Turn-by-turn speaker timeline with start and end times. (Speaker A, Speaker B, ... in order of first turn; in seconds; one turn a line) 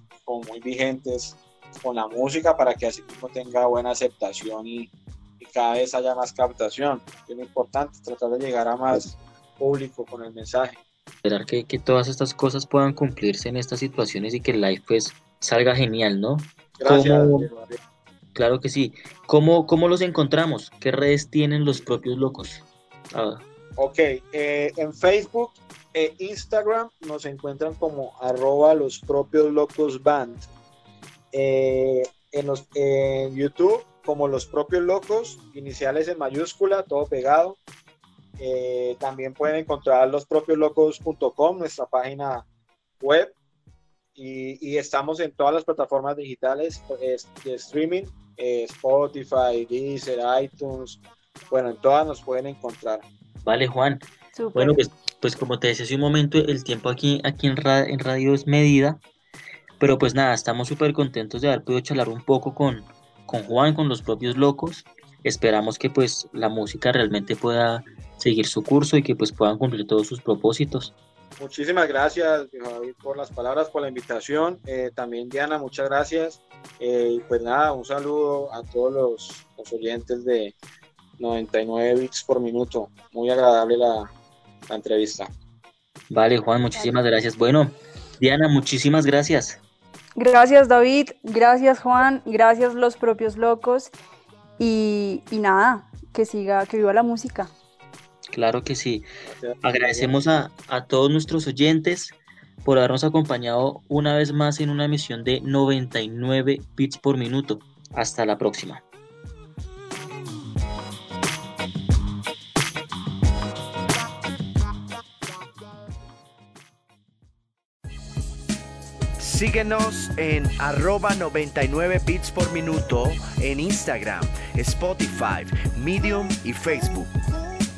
Speaker A: 0.2-10.8
Speaker B: 11.2-17.5
Speaker A: 16.8-17.8
Speaker B: 18.3-23.4
Speaker A: 23.8-30.4
Speaker A: 31.3-37.6
Speaker A: 38.4-42.4
Speaker A: 43.0-43.3
Speaker A: 44.1-53.0
Speaker B: 53.4-59.0
Speaker C: 54.3-54.8
Speaker B: 59.8-70.9
Speaker A: 71.4-80.5
Speaker A: 81.2-84.1
Speaker A: 84.7-85.3
Speaker B: 86.1-89.6
Speaker C: 86.7-87.0
Speaker C: 90.2-93.9
Speaker C: 94.6-97.5
Speaker B: 98.3-99.0
Speaker A: 99.2-100.5
Speaker B: 99.6-108.8
Speaker D: 119.2-127.1